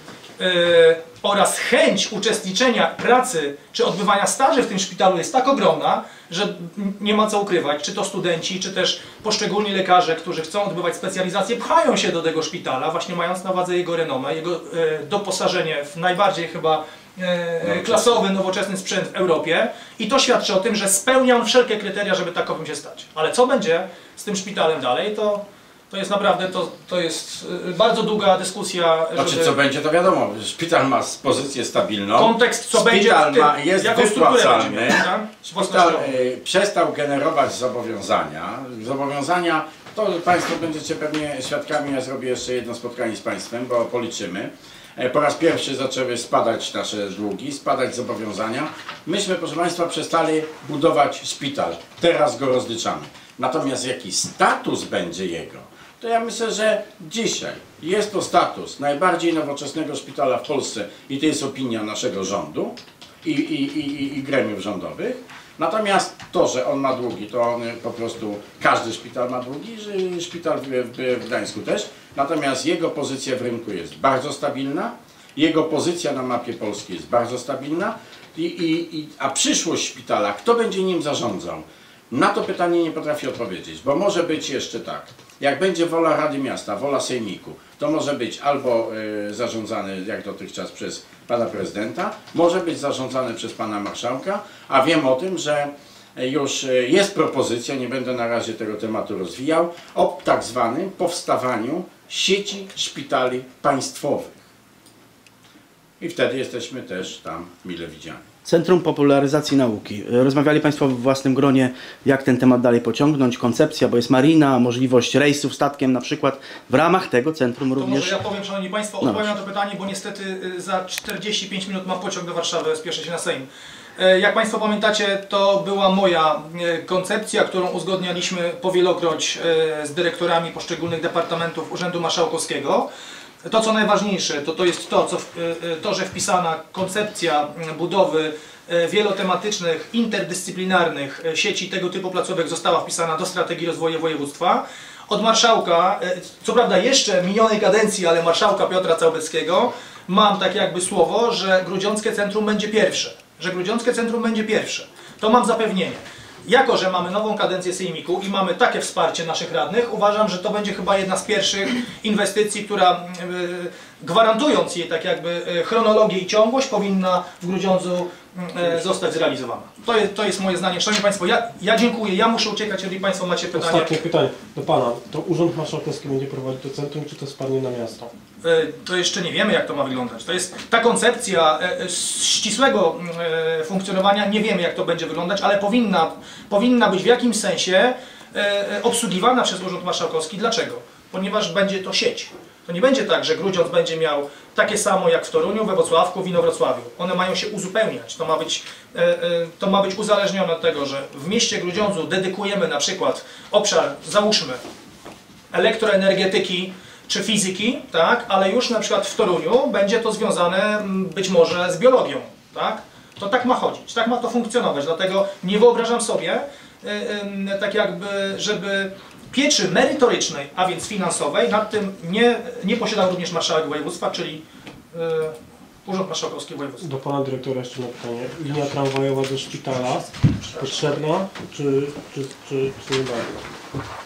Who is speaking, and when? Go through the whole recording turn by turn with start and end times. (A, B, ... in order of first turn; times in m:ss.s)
0:00.4-0:29.6 A
0:17.6-0:18.2 B
0:29.1-1:44.4 B
0:32.2-0:36.1 A
1:46.0-1:48.3 B
1:48.4-1:58.2 C
1:57.8-2:12.9 A
1:59.0-1:59.3 C
2:13.4-2:53.9 A
2:53.5-2:58.1 D
2:58.4-3:24.6 A
3:25.5-3:46.9 A
3:46.8-3:53.4 D
3:50.4-3:50.9 A